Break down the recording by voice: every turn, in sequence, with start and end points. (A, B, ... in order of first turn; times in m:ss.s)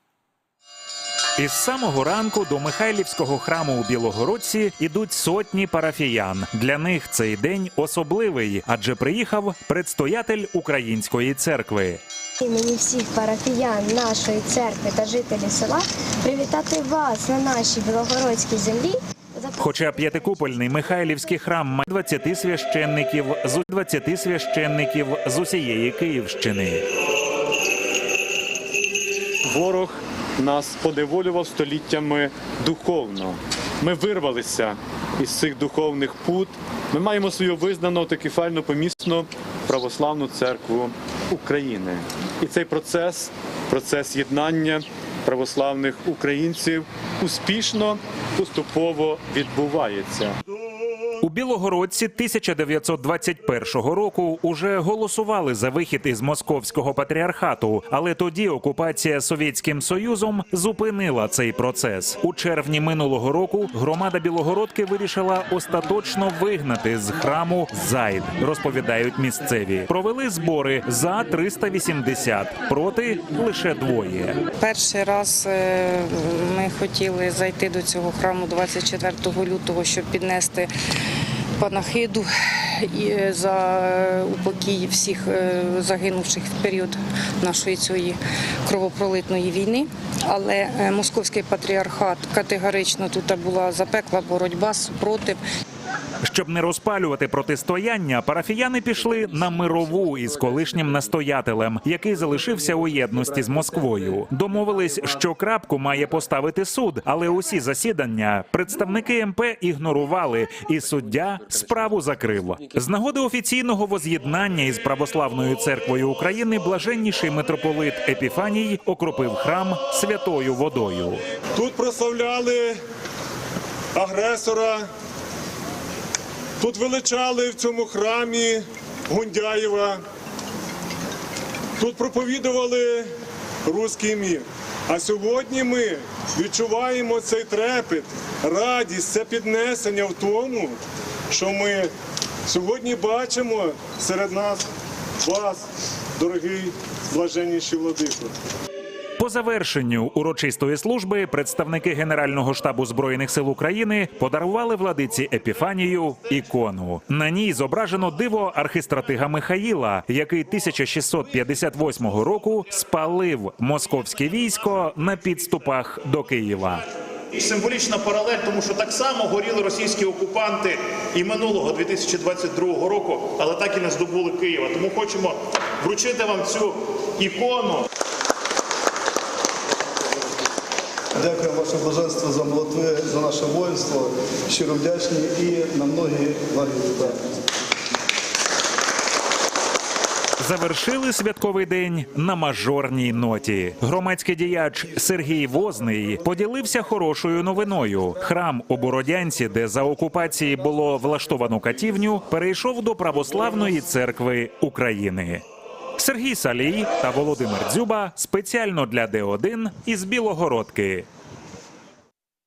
0:01.4-0:12.0 A
0:12.4-0:19.6 B
0:19.6-0:26.8 A
0:29.4-0:50.4 C
0:51.2-1:14.4 A
1:14.6-1:20.7 D
1:21.6-1:35.4 D
1:36.2-2:01.2 A
2:01.6-2:02.8 E
2:04.0-2:04.9 E
2:06.6-2:10.0 E
2:11.8-2:13.1 E
2:13.6-2:20.8 E
2:21.3-2:21.9 E
2:22.5-2:24.7 E
2:25.2-2:25.7 E
2:26.2-2:28.3 E
2:29.2-2:46.8 A
2:47.3-2:57.8 F
3:01.2-3:07.2 G
3:10.4-3:25.4 A
3:26.0-3:31.1 A